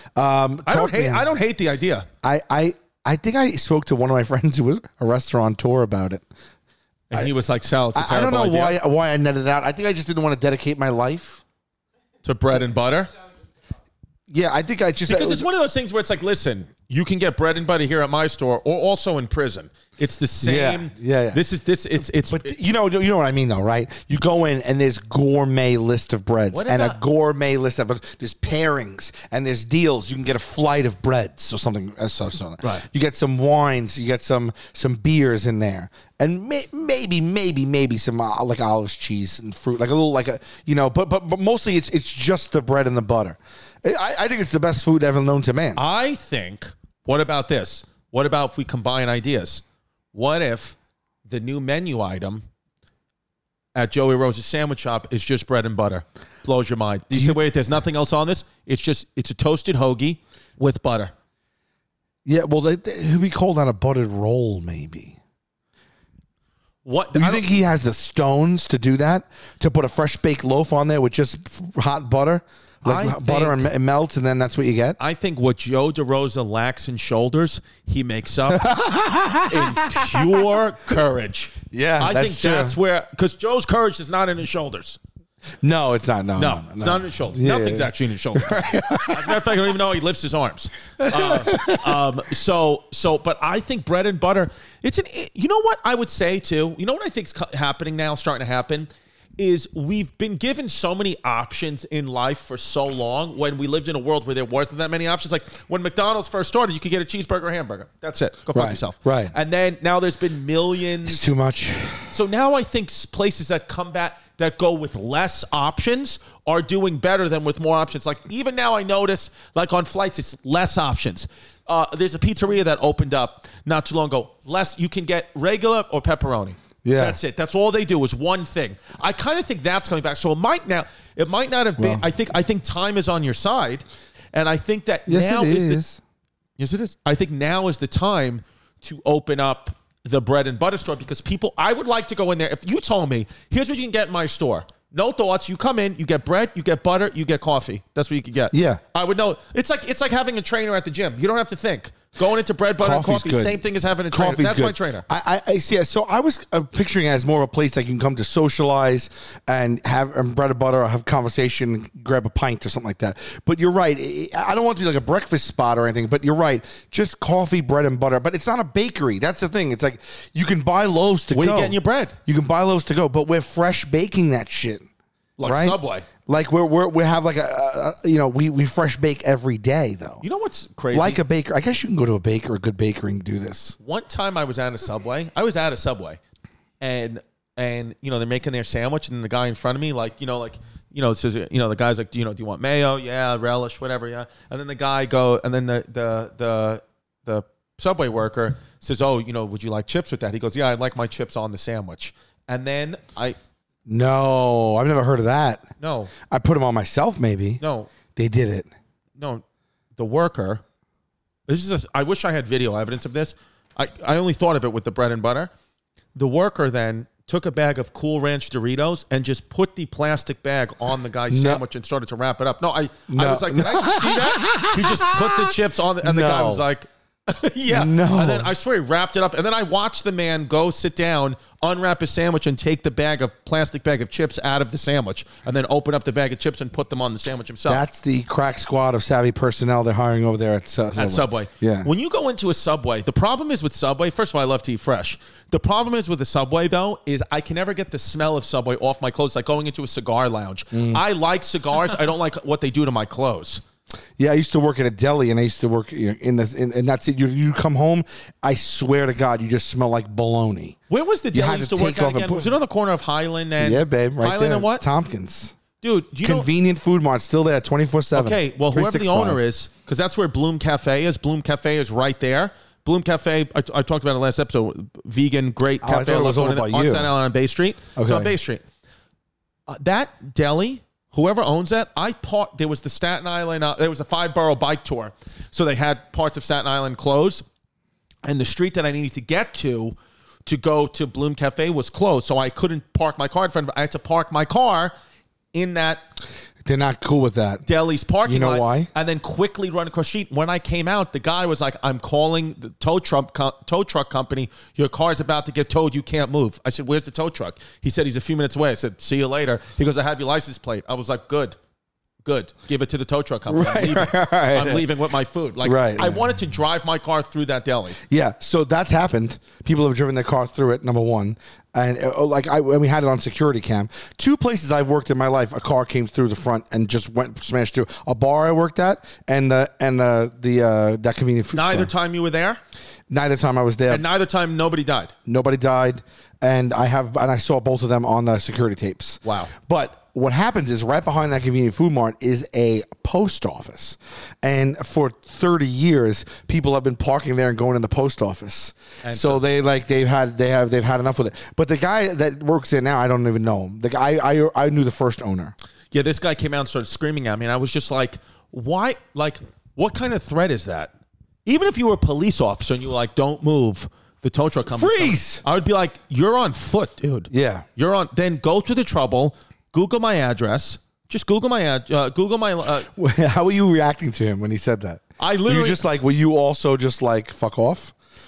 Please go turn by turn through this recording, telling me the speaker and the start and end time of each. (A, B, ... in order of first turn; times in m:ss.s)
0:00.2-0:01.3 A
0:00.6-0:02.1 B
0:02.2-0:06.2 A
0:07.1-0:08.8 B
0:07.9-0:11.4 A
0:12.2-0:13.1 B
0:14.3-0:15.4 A
0:15.1-0:22.6 B
0:20.4-0:21.4 A
0:22.3-0:45.8 A
0:26.5-0:27.0 B
0:45.8-0:52.4 B
0:53.7-1:01.1 B
0:57.1-0:57.4 A
1:02.2-1:05.2 A
1:06.8-1:07.4 B
1:07.1-1:15.0 A
1:12.8-1:13.6 B
1:15.0-1:18.7 B
1:18.5-1:20.4 A
1:19.5-1:25.0 B
1:21.7-1:22.8 A
1:25.6-1:29.5 A
1:26.4-1:51.3 B
1:31.0-1:32.0 A
1:48.5-1:49.3 A
1:51.0-1:52.1 A
1:52.1-2:15.8 B
2:06.8-2:07.2 A
2:11.8-2:12.0 A
2:15.1-2:16.0 A
2:16.6-2:35.0 B
2:28.5-2:28.8 A
2:32.8-2:33.6 A
2:34.1-2:54.8 A
2:51.3-2:52.2 B
2:55.4-2:56.1 B
2:55.4-3:00.2 A
3:00.2-3:01.2 B
3:00.9-3:03.8 A
3:03.8-3:06.2 B
3:06.8-3:23.4 B
3:23.9-3:25.6 A
3:25.8-3:26.1 B
3:26.2-3:27.6 A
3:27.6-3:27.9 B
3:28.1-3:28.7 A
3:29.2-3:29.4 B
3:30.0-3:30.6 B
3:31.5-3:35.5 B
3:36.1-3:57.9 B
3:41.3-3:41.6 A
3:43.1-3:46.6 A
3:47.7-3:48.5 A
3:57.7-4:01.9 A
4:01.0-4:13.6 B
4:10.7-4:11.0 A
4:14.2-4:20.8 A
4:20.9-4:24.8 B
4:21.3-4:22.5 A
4:23.6-4:25.5 A
4:25.8-4:26.5 B
4:26.2-4:29.4 A
4:28.1-4:38.6 B
4:35.8-4:37.1 A
4:38.0-4:38.3 A
4:39.7-4:47.4 B
4:48.2-4:49.9 B
4:50.4-4:54.9 B
4:55.5-4:56.0 B
4:56.6-4:57.6 A
4:57.6-5:11.6 B
4:58.2-4:58.9 A
5:12.2-5:18.0 B
5:13.5-5:14.9 A
5:15.6-5:16.2 A
5:18.0-5:31.9 A
5:31.5-5:32.6 B
5:33.1-5:34.0 A
5:33.9-5:35.1 B
5:35.2-5:55.5 A
5:39.2-5:39.5 B
5:49.0-5:49.4 B
5:55.9-6:00.9 B
6:01.4-6:12.9 B
6:04.7-6:05.4 A
6:07.3-6:07.6 A
6:12.9-6:17.9 A
6:15.2-6:15.8 B